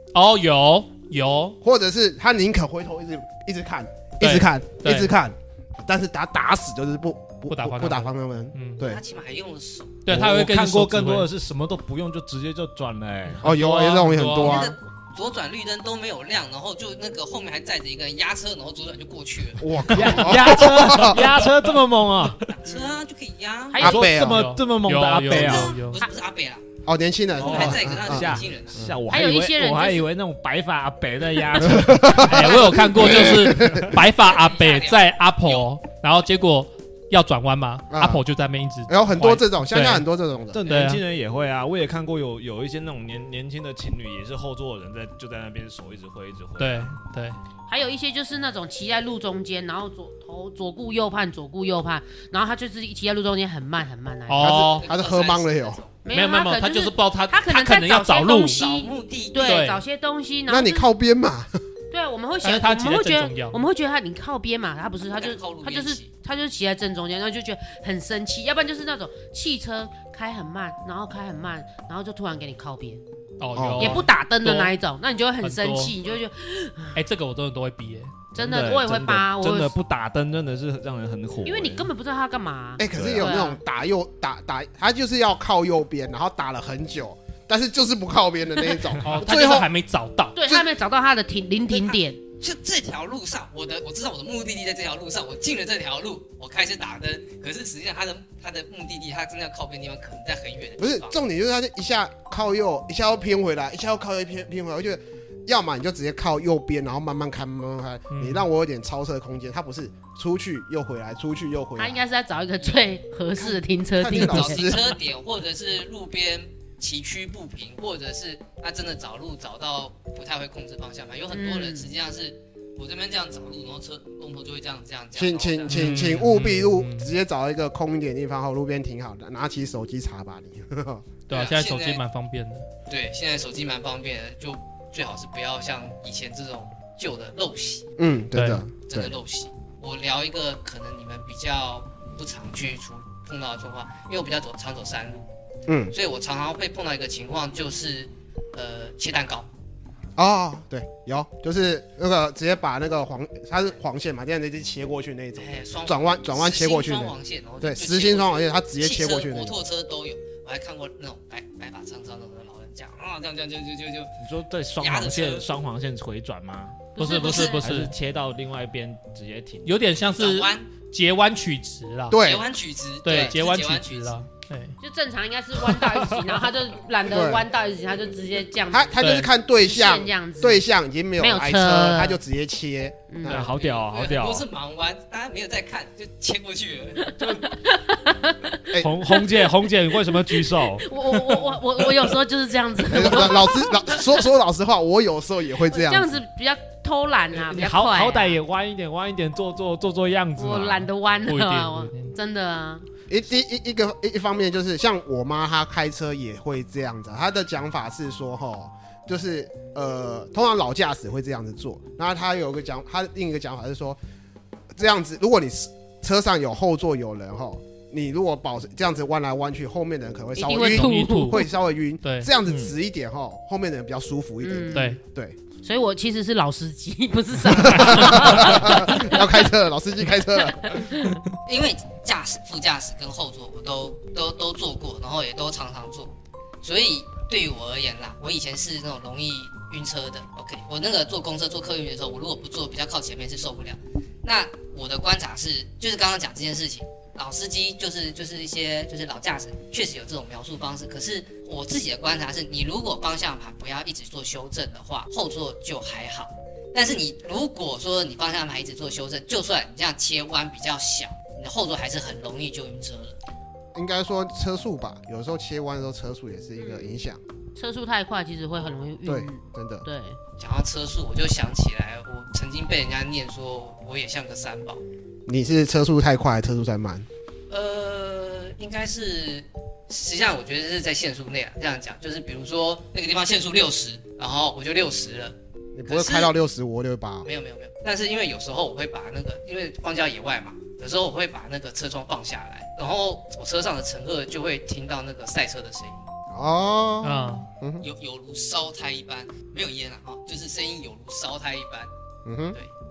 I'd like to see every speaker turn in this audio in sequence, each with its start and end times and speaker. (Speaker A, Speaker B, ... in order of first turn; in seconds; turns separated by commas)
Speaker A: 0.1-1.6, Speaker B: 1.6-9.0, Speaker A: 4.2-5.1, Speaker A: 7.5-8.8, Speaker C: 8.8-10.0, Speaker A: 10.1-11.3, Speaker D: 10.1-13.5, Speaker B: 13.4-14.8, Speaker A: 13.4-14.6, Speaker C: 14.4-20.5, Speaker B: 19.6-21.4, Speaker D: 19.9-22.4, Speaker C: 22.2-23.9, Speaker E: 22.7-22.9, Speaker E: 23.7-24.2, Speaker D: 23.8-25.8, Speaker B: 23.8-24.5, Speaker A: 24.2-26.1, Speaker C: 25.3-26.7, Speaker B: 26.9-29.0, Speaker C: 27.4-28.9, Speaker D: 27.4-32.8, Speaker E: 29.1-30.1, Speaker B: 31.6-34.0, Speaker A: 32.2-40.0, Speaker C: 34.2-35.7, Speaker B: 37.9-38.2, Speaker B: 38.9-40.7, Speaker D: 40.5-46.9, Speaker A: 40.6-41.0, Speaker A: 46.6-47.4, Speaker E: 47.7-54.6, Speaker A: 54.3-54.9, Speaker B: 54.4-55.8, Speaker C: 54.6-56.0, Speaker E: 56.0-60.9, Speaker A: 56.1-58.6, Speaker C: 58.5-59.6, Speaker A: 59.4-59.8, Speaker B: 60.5-61.6, Speaker E: 61.9-73.0, Speaker A: 62.4-63.6, Speaker C: 65.1-66.1, Speaker A: 73.4-74.8, Speaker B: 73.5-74.0, Speaker E: 73.8-77.0, Speaker A: 75.4-76.0, Speaker A: 77.0-78.2, Speaker D: 78.3-81.9, Speaker E: 78.4-79.8, Speaker E: 81.5-83.6, Speaker B: 82.8-89.7, Speaker D: 83.0-83.3, Speaker A: 89.0-90.4, Speaker E: 90.4-92.2, Speaker C: 91.7-101.2, Speaker B: 100.8-112.0, Speaker A: 108.1-108.5, Speaker E: 111.8-114.7, Speaker C: 112.6-112.9, Speaker B: 113.4-114.9, Speaker C: 114.1-126.2, Speaker E: 121.3-121.9, Speaker B: 125.2-131.1, Speaker A: 125.7-127.1, Speaker A: 131.3-132.7, Speaker C: 131.3-132.0, Speaker C: 132.9-137.9, Speaker B: 138.0-139.2, Speaker A: 138.3-138.7, Speaker C: 138.9-145.3, Speaker B: 145.7-145.9, Speaker C: 145.9-149.5, Speaker B: 150.2-159.6, Speaker C: 155.4-164.2, Speaker D: 164.2-169.8, Speaker C: 164.7-165.5, Speaker E: 167.0-167.6, Speaker A: 167.0-167.9, Speaker A: 169.7-172.2, Speaker C: 170.2-170.7, Speaker B: 172.1-172.5, Speaker C: 172.2-174.2, Speaker A: 173.1-174.8, Speaker E: 174.8-180.7, Speaker B: 177.1-177.4, Speaker B: 178.7-183.5, Speaker A: 179.0-179.3, Speaker E: 181.2-182.2, Speaker E: 183.1-183.5, Speaker D: 183.2-184.4, Speaker C: 183.4-187.2, Speaker E: 187.0-189.4, Speaker D: 188.8-190.9, Speaker E: 190.1-193.9, Speaker B: 192.9-196.2, Speaker E: 195.7-198.4, Speaker D: 197.4-200.9, Speaker E: 200.4-202.9, Speaker A: 201.3-202.2, Speaker B: 203.1-214.0, Speaker B: 214.7-225.4, Speaker E: 220.4-221.4, Speaker A: 220.5-221.5, Speaker A: 222.0-222.3, Speaker D: 222.4-222.7, Speaker E: 224.4-225.0, Speaker E: 225.6-229.2, Speaker B: 227.4-230.8, Speaker A: 227.9-228.2, Speaker E: 230.6-231.2, Speaker C: 231.5-263.2, Speaker B: 263.7-267.2, Speaker E: 266.6-266.9, Speaker E: 267.6-270.2, Speaker B: 269.1-269.9, Speaker C: 270.4-274.8, Speaker B: 275.3-277.1, Speaker C: 277.5-285.4, Speaker B: 285.8-287.3, Speaker C: 285.9-286.3, Speaker C: 287.2-296.1, Speaker B: 296.3-297.9, Speaker A: 297.0-297.5, Speaker C: 297.8-301.9, Speaker B: 302.2-302.6